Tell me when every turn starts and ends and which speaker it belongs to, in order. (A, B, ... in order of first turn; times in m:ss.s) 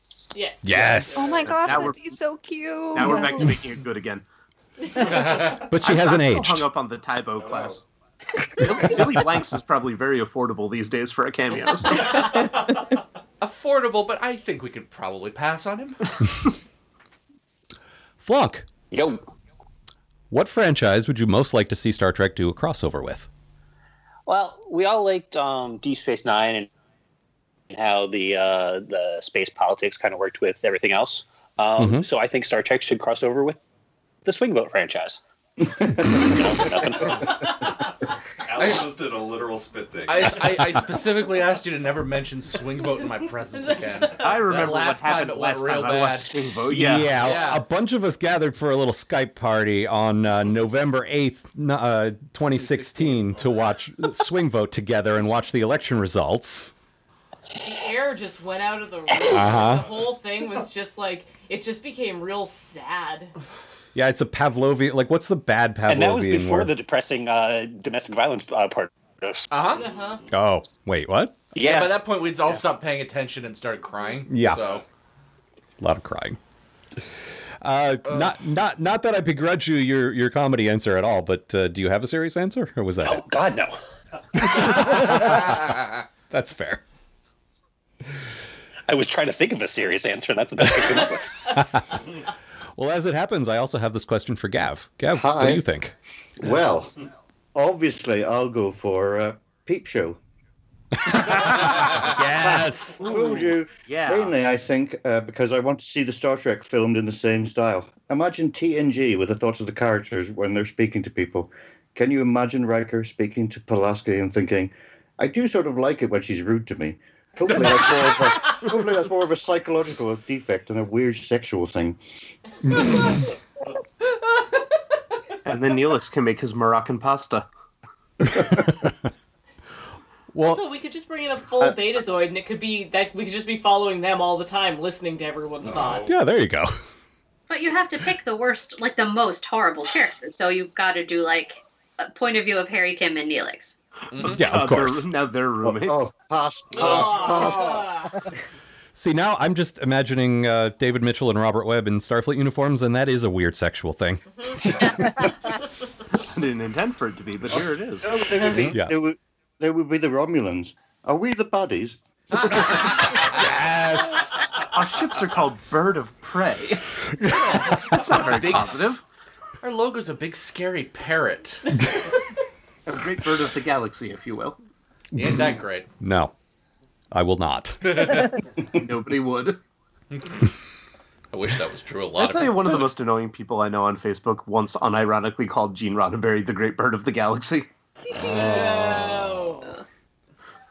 0:00.3-0:01.4 A
0:00.6-0:01.5 B
0:01.1-0:03.6 C
0:01.6-0:02.0 D
0:02.9-0:04.2 D
0:05.2-0:07.8 D
0:05.4-0:06.6 B
0:07.4-0:07.8 E
0:08.6-0:12.5 D
0:13.4-0:16.1 F
0:18.2-0:18.7 B
0:18.9-0:19.2 G
0:20.3-0:23.3 B
0:24.3-0:26.7 G
0:27.7-0:33.6 G
0:31.8-0:32.1 B
0:34.2-0:35.2 G
0:36.2-0:37.5 G
0:38.4-0:40.4 E
0:40.1-0:46.3 F
0:43.5-0:44.5 A
0:44.2-0:47.2 D
0:46.7-0:56.7 B
0:47.1-0:47.6 F
0:52.6-0:53.4 F
0:57.6-1:03.3 A
0:59.3-0:59.8 B
1:03.9-1:06.7 B
1:05.9-1:09.4 G
1:09.5-1:09.8 F
1:09.8-1:10.2 A
1:10.3-1:11.4 B
1:11.5-1:12.0 G
1:11.6-1:14.8 F
1:14.3-1:14.8 B
1:15.8-1:16.4 B
1:17.6-1:23.2 B
1:23.0-1:23.8 G
1:24.4-1:25.8 B
1:26.3-1:26.8 B
1:28.9-1:31.5 G
1:31.5-1:31.8 B
1:32.7-1:35.9 B
1:35.1-1:35.6 H
1:36.4-1:36.9 H
1:37.5-1:40.2 H
1:41.1-1:43.0 B
1:42.4-2:02.0 H
1:43.0-1:44.3 D
2:02.6-2:03.0 B
2:05.4-2:07.5 D
2:08.2-2:08.9 B
2:10.3-2:10.6 B
2:10.4-2:16.1 A
2:15.6-2:16.1 E
2:16.0-2:16.8 B
2:17.5-2:23.8 I
2:24.1-2:24.4 F
2:24.2-2:26.1 D
2:24.3-2:25.1 B
2:25.6-2:28.0 H
2:26.8-2:28.1 A
2:28.9-2:35.0 B
2:36.1-2:38.4 D
2:38.0-2:42.0 H
2:38.7-2:39.0 B
2:42.6-2:44.4 B
2:43.1-2:43.5 F
2:44.7-2:46.8 D
2:47.2-2:47.8 B
2:47.7-2:49.0 F
2:47.7-2:49.0 D
2:49.6-2:51.8 F
2:52.8-2:54.6 D
2:55.1-2:55.9 F
2:55.2-2:55.4 B
2:56.0-2:56.3 B
2:57.1-2:58.2 B
2:57.8-2:58.3 F
2:58.7-2:59.6 D
3:00.1-3:00.4 F
3:01.3-3:02.8 F
3:02.2-3:07.7 D
3:08.2-3:09.2 B
3:08.2-3:09.8 A
3:08.2-3:09.4 F